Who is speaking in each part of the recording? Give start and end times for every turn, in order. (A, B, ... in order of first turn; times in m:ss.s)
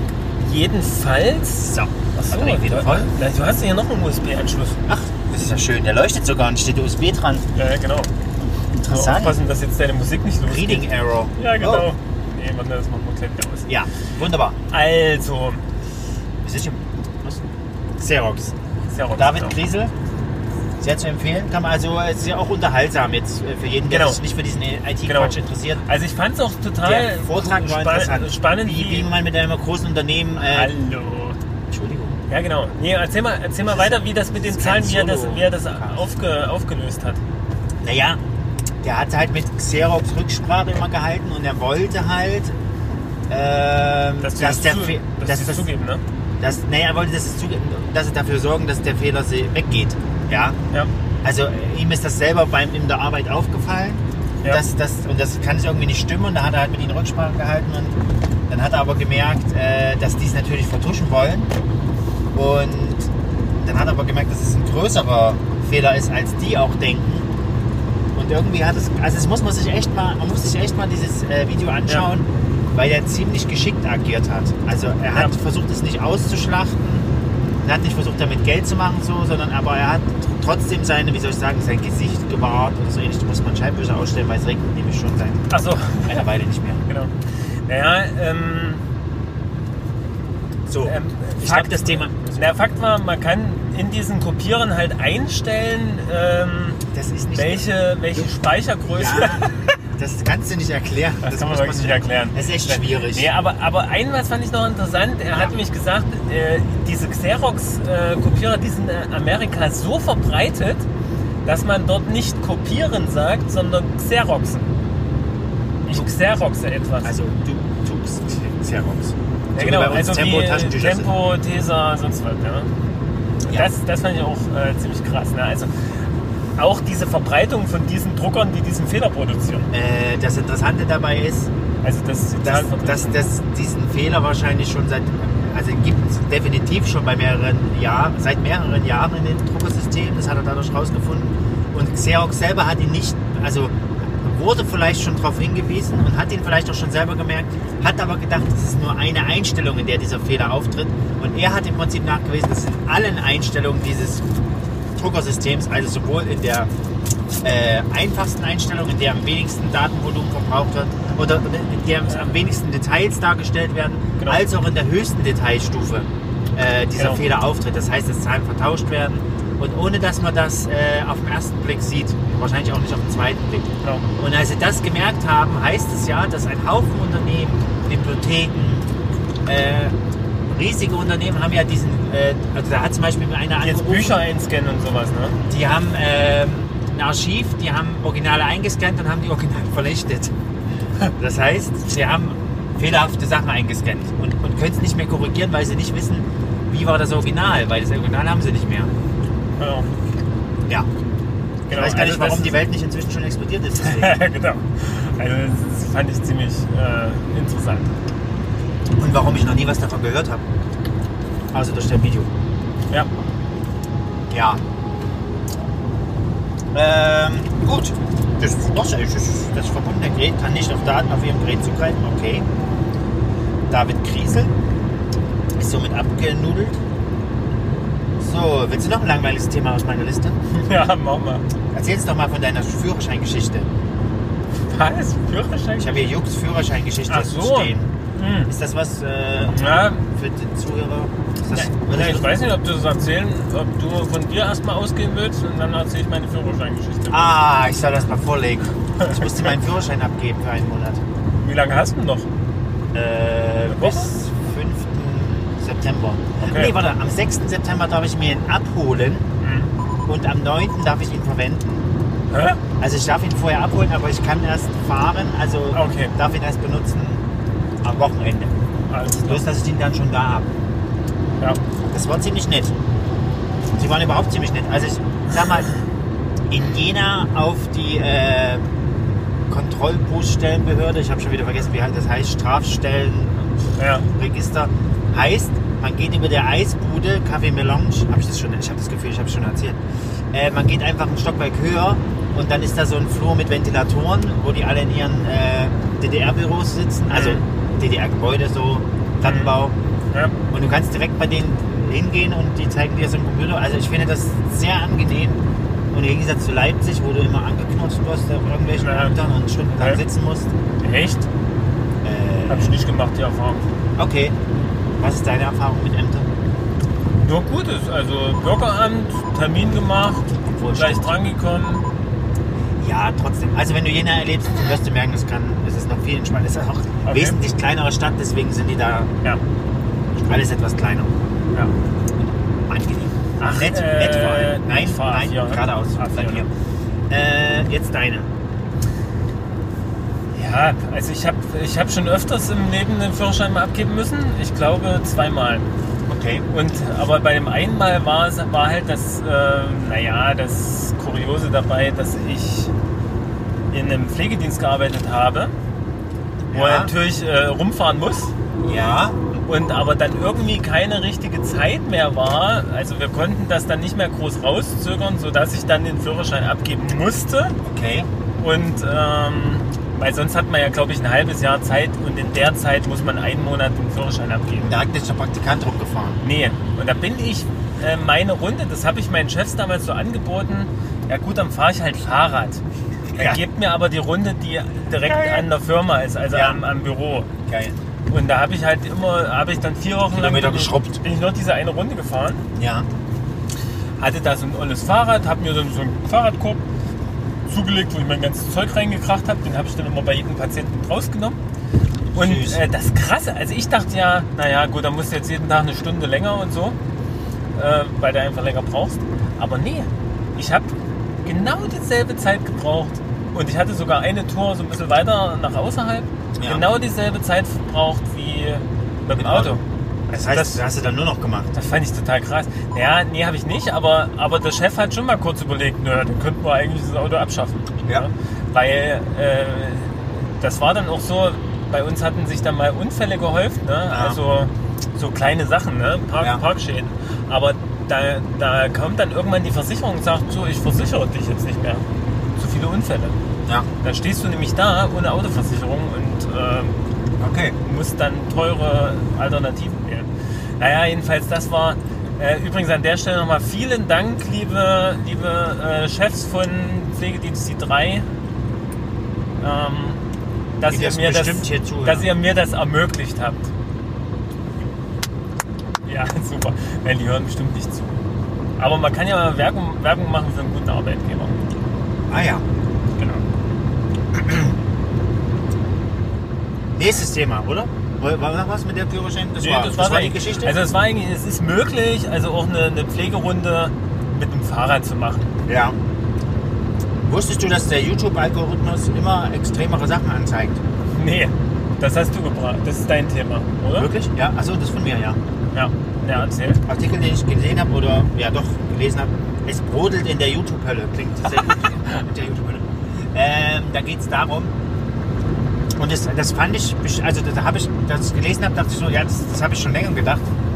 0:00.4-0:04.8 A
0:01.6-0:03.1 B
0:04.9-0:07.4 B
0:07.5-0:08.1 A
0:08.7-0:09.4 B
0:08.9-0:13.7 A
0:10.5-0:11.9 B
0:13.6-0:14.6 B
0:14.7-0:15.6 A
0:16.4-0:17.4 B
0:18.0-0:18.5 B
0:18.9-0:19.6 A
0:19.2-0:19.9 B
0:20.8-0:25.8 B
0:23.9-0:24.2 A
0:25.0-0:29.1 A
0:26.8-0:30.7 B
0:30.4-0:31.4 A
0:31.7-0:32.2 B
0:32.3-0:37.2 A
0:33.7-0:36.0 B
0:37.8-0:38.2 B
0:38.8-0:42.6 B
0:43.3-0:45.7 B
0:44.2-0:46.0 A
0:46.4-0:50.6 B
0:51.2-0:58.0 B
0:58.5-1:01.5 B
1:02.3-1:07.3 B
1:08.1-1:17.1 B
1:17.6-1:25.5 B
1:25.5-1:26.2 A
1:26.0-1:26.8 B
1:26.8-1:27.1 A
1:27.6-1:28.8 A
1:30.7-1:32.5 B
1:30.8-1:36.8 A
1:36.9-1:37.7 B
1:37.3-1:39.7 A
1:38.9-1:43.3 B
1:41.2-1:50.8 A
1:51.4-1:54.7 A
1:55.8-1:57.1 A
1:57.0-2:01.1 B
1:59.5-2:02.7 A
2:03.4-2:05.7 A
2:06.6-2:09.7 A
2:09.7-2:11.5 B
2:11.8-2:13.2 A
2:12.4-2:34.3 B
2:35.0-2:36.7 B
2:37.4-2:58.9 B
2:42.1-2:42.3 A
2:44.2-2:44.4 A
2:47.0-2:47.2 A
2:59.4-2:59.9 B
3:00.5-3:04.2 B
3:03.6-3:05.4 A
3:05.5-3:10.3 B
3:11.2-3:18.9 B
3:19.6-3:19.9 A
3:21.7-3:22.6 A
3:21.7-3:24.2 B
3:23.8-3:27.9 A
3:29.0-3:30.4 B
3:31.5-3:32.3 B
3:34.3-3:34.6 B
3:36.7-3:42.4 B
3:43.7-3:44.5 B
3:45.6-3:46.8 B
3:48.2-3:50.4 B
3:50.5-3:51.4 A
3:51.7-3:53.7 B
3:54.7-3:56.1 A
3:55.8-3:57.9 B
3:57.1-3:58.5 A
3:58.5-4:02.3 B
3:59.5-4:00.0 A
4:01.5-4:07.3 A
4:07.1-4:11.0 B
4:09.0-4:09.5 A
4:11.4-4:12.3 A
4:12.9-4:19.3 B
4:13.7-4:14.1 A
4:16.4-4:16.8 A
4:19.4-4:19.7 A
4:20.0-4:21.9 B
4:22.3-4:22.6 A
4:22.8-4:27.2 B
4:25.7-4:26.1 A
4:27.8-4:28.5 B
4:28.9-4:29.4 A
4:29.2-4:30.5 B
4:31.9-4:32.7 B
4:33.7-4:35.7 B
4:36.5-4:38.6 B
4:39.5-4:43.5 B
4:43.8-4:44.1 A
4:44.0-4:49.8 B
4:50.3-4:59.7 B
4:57.1-4:57.4 A
4:59.2-4:59.5 A
5:00.5-5:10.5 B
5:08.8-5:09.2 A
5:09.7-5:10.0 A
5:10.8-5:11.3 A
5:12.0-5:12.8 B
5:12.5-5:13.7 A
5:14.0-5:14.4 B
5:15.0-5:16.3 B
5:17.2-5:21.8 A
5:20.5-5:21.2 B
5:22.8-5:29.1 B
5:27.0-5:27.4 A
5:30.3-5:31.2 B
5:32.2-5:36.5 B
5:33.4-5:36.5 A
5:37.1-5:38.3 B
5:40.3-5:45.7 A
5:46.0-5:46.5 B
5:46.5-5:52.7 A
5:53.7-5:55.5 A
5:56.5-5:56.9 B
5:56.5-5:58.3 A
5:58.6-5:59.2 B
5:59.4-6:07.5 A
6:07.6-6:08.1 B
6:08.4-6:14.8 A
6:14.6-6:16.2 B
6:16.2-6:22.6 A
6:23.1-6:27.3 A
6:23.1-6:23.4 B
6:25.0-6:25.5 B
6:26.3-6:26.6 B
6:27.5-6:27.8 B
6:28.1-6:32.4 A
6:30.1-6:31.0 B
6:32.5-6:32.9 B
6:34.0-6:36.6 A
6:37.4-6:41.4 A
6:42.1-6:42.6 B
6:42.1-6:46.8 A
6:47.5-6:50.7 A
6:51.2-7:00.6 A
6:56.4-6:56.6 B
6:59.1-7:01.5 B
7:01.5-7:23.2 A
7:13.9-7:14.2 B
7:23.8-7:26.8 A
7:27.2-7:27.6 B
7:27.6-7:38.0 A
7:39.4-7:40.0 A
7:40.6-7:43.5 A
7:40.7-7:42.1 B
7:45.8-7:47.8 A
7:48.6-7:51.4 A
7:52.1-7:52.4 B
7:53.0-7:53.2 A
7:54.1-7:54.5 B
7:56.8-8:00.6 B
7:59.4-8:05.3 A
8:05.4-8:05.8 B
8:07.0-8:10.6 B
8:10.9-8:13.9 A
8:13.7-8:15.2 B
8:15.5-8:16.6 A
8:16.7-8:24.5 B
8:25.8-8:30.2 B